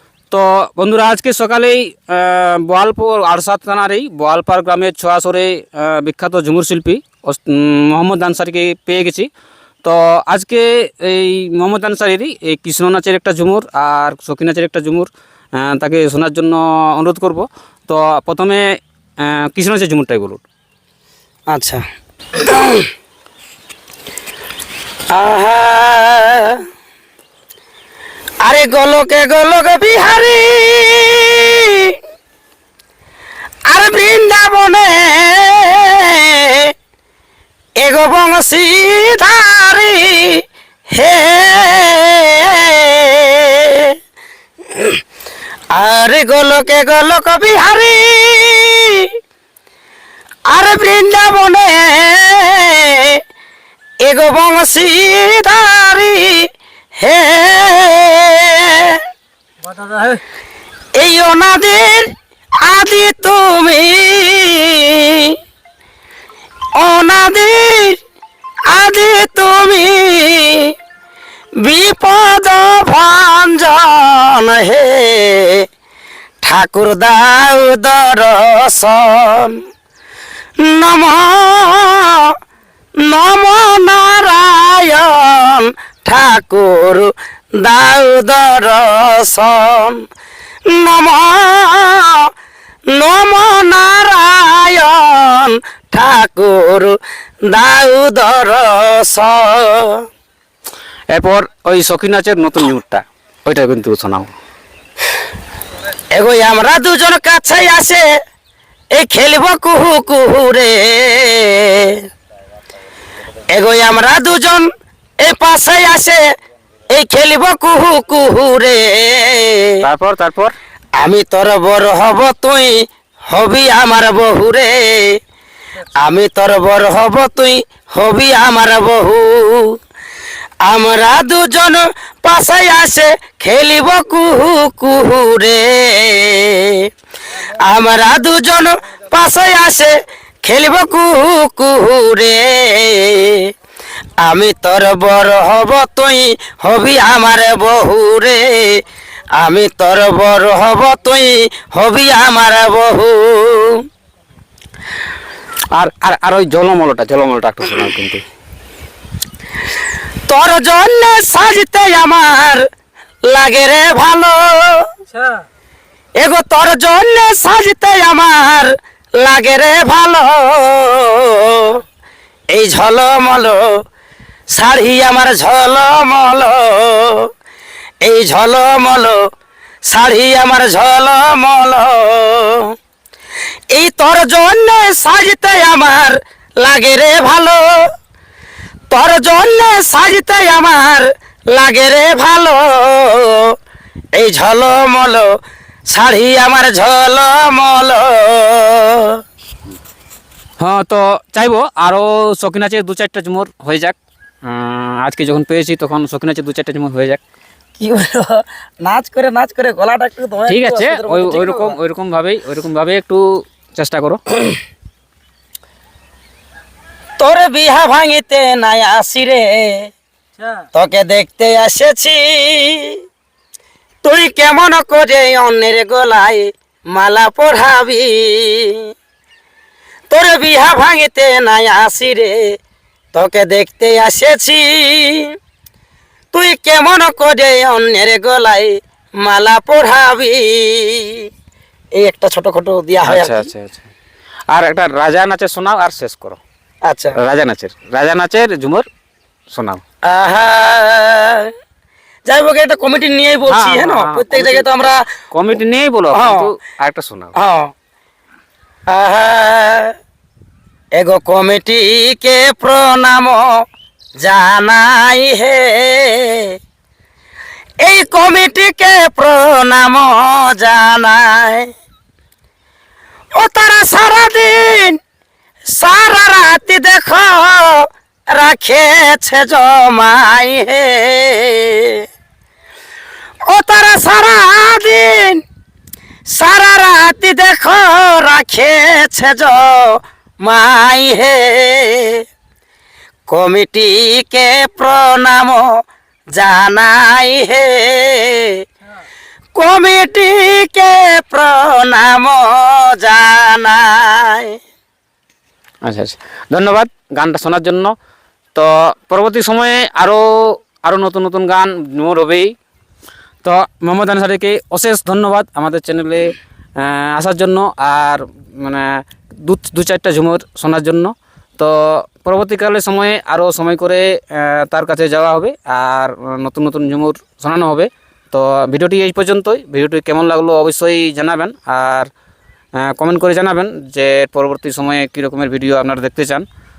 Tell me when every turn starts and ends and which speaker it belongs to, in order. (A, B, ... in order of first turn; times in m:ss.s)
0:00.3-0:09.3 A
0:09.8-0:18.6 A
0:19.2-0:20.4 A
0:21.5-0:21.8 B
0:22.4-0:22.9 B
0:25.1-0:26.6 B
0:28.4-0:32.0 B
0:33.7-0:36.7 B
0:37.8-0:43.9 B
0:45.7-0:49.1 B
0:50.5-0:53.2 B
0:54.0-0:59.0 B
1:00.9-1:02.1 B
1:02.6-1:05.4 B
1:06.8-1:08.0 B
1:08.7-1:10.7 B
1:11.6-1:15.6 B
1:16.4-1:19.6 B
1:20.6-1:22.3 B
1:23.0-1:30.0 B
1:30.7-1:32.3 B
1:32.9-1:37.0 B
1:37.5-1:40.0 B
1:41.1-1:44.3 A
1:46.1-1:48.0 B
1:48.9-1:52.0 B
1:53.5-1:54.7 B
1:55.2-1:56.2 B
1:56.9-1:59.8 B
1:59.8-2:00.5 A
2:01.0-2:02.7 B
2:03.3-2:05.2 B
2:06.0-2:09.8 B
2:10.6-2:16.9 B
2:17.5-2:23.5 B
2:24.2-2:28.8 B
2:29.4-2:33.8 B
2:35.7-2:38.2 A
2:40.3-2:42.6 B
2:43.3-2:44.9 B
2:46.2-2:51.8 B
2:52.5-2:53.7 B
2:54.5-2:57.3 B
2:58.0-2:59.2 B
2:59.9-3:02.7 B
3:03.7-3:07.8 B
3:08.9-3:13.5 B
3:14.1-3:15.3 B
3:15.9-3:19.2 B
3:20.6-3:27.2 A
3:27.8-3:31.8 B
3:30.5-3:34.2 A
3:37.2-3:39.9 B
3:40.7-3:43.0 B
3:44.0-3:48.9 B
3:50.1-3:52.4 B
3:53.1-3:55.3 B
3:56.3-4:01.3 B
4:02.0-4:03.5 B
4:03.0-4:03.9 A
4:04.5-4:06.4 A
4:06.8-4:07.2 B
4:07.2-4:08.8 A
4:09.5-4:09.8 A
4:10.1-4:11.5 B
4:12.3-4:15.0 B
4:13.5-4:14.7 A
4:15.3-4:17.3 A
4:16.1-4:16.5 B
4:17.4-4:17.7 B
4:18.9-4:19.9 B
4:21.0-4:23.5 B
4:24.2-4:26.5 B
4:27.8-4:31.7 B
4:33.4-4:35.0 B
4:35.7-4:42.0 B
4:43.5-4:45.4 B
4:46.3-4:52.2 B
4:53.3-4:55.6 B
4:56.3-4:58.6 B
4:59.5-5:04.6 B
5:05.8-5:07.9 A
5:08.5-5:12.5 A
5:13.4-5:32.1 A
5:32.8-5:36.4 A